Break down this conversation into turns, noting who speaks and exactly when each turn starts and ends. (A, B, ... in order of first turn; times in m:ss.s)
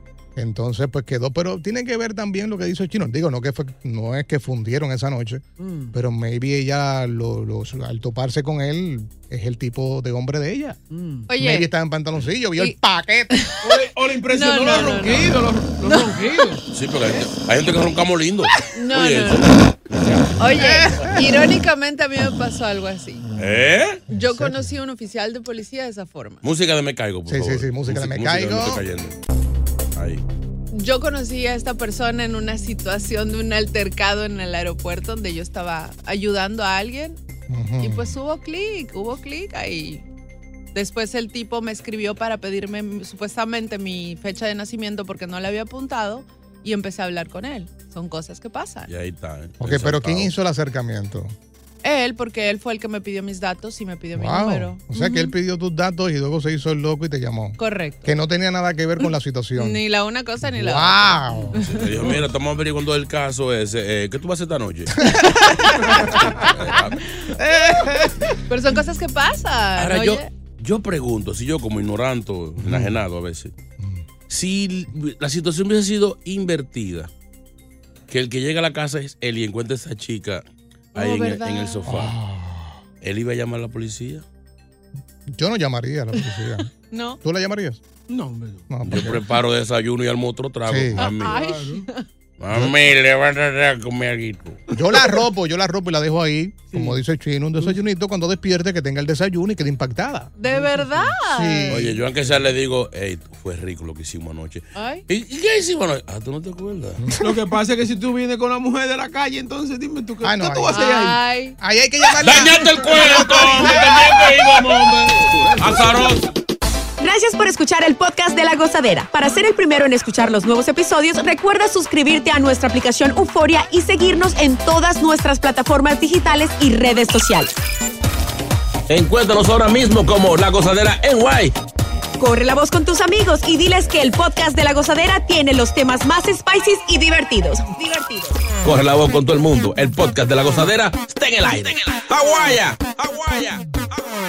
0:00.4-0:10.8 A
0:05.6-0:06.0 B
0:10.9-0:11.3 B
0:11.3-0:11.7 C
0:11.3-0:13.3 A
0:13.3-0:13.6 C
0:13.6-0:17.3 B
0:14.2-0:16.4 C
0:16.7-0:20.3 D
0:18.7-0:19.5 C
0:20.4-0:23.3 C
0:20.4-0:21.4 A
0:23.4-0:24.0 D
0:24.1-0:24.8 A
0:24.1-0:26.4 C
0:26.4-0:29.2 D
0:27.3-0:28.8 A
0:30.0-0:30.2 D
0:30.7-0:37.2 C
0:37.5-0:38.2 A
0:37.8-0:40.0 C
0:40.7-0:48.9 C
0:48.9-0:50.3 D
0:49.6-0:51.3 A
0:51.8-0:55.3 C
0:54.1-0:59.8 A
0:57.6-0:58.1 C
0:59.5-1:02.1 C
1:00.4-1:01.6 A
1:01.6-1:05.1 D
1:05.0-1:05.4 A
1:05.1-1:06.8 C
1:06.0-1:07.0 D
1:07.4-1:08.3 B
1:08.4-1:10.3 C
1:09.8-1:13.5 D
1:12.6-1:13.0 A
1:13.8-1:14.0 A
1:14.3-1:17.1 D
1:18.1-1:20.4 D
1:20.9-1:21.9 C
1:20.9-1:22.2 D
1:21.8-1:22.8 A
1:23.0-1:24.2 D
1:25.3-1:26.7 A
1:26.2-1:27.2 C
1:27.2-1:27.8 A
1:28.1-1:28.6 B
1:28.7-1:29.2 A
1:28.8-1:31.4 D
1:30.6-1:31.0 A
1:31.0-1:32.0 C
1:31.2-1:31.8 B
1:32.4-1:34.6 D
1:34.7-1:40.3 A
1:34.9-1:35.2 B
1:36.7-1:37.0 B
1:40.4-1:41.9 C
1:40.4-1:41.2 B
1:41.2-1:42.0 A
1:41.7-1:47.0 D
1:44.7-1:45.0 C
1:47.0-1:47.4 A
1:47.2-1:51.2 B
1:50.2-1:51.0 A
1:50.7-1:51.6 C
1:51.6-1:54.0 A
1:52.2-1:56.2 D
1:53.0-1:54.0 B
1:55.4-1:55.9 B
1:57.0-2:07.6 E
2:08.9-2:11.5 D
2:12.2-2:18.4 E
2:18.6-2:23.7 D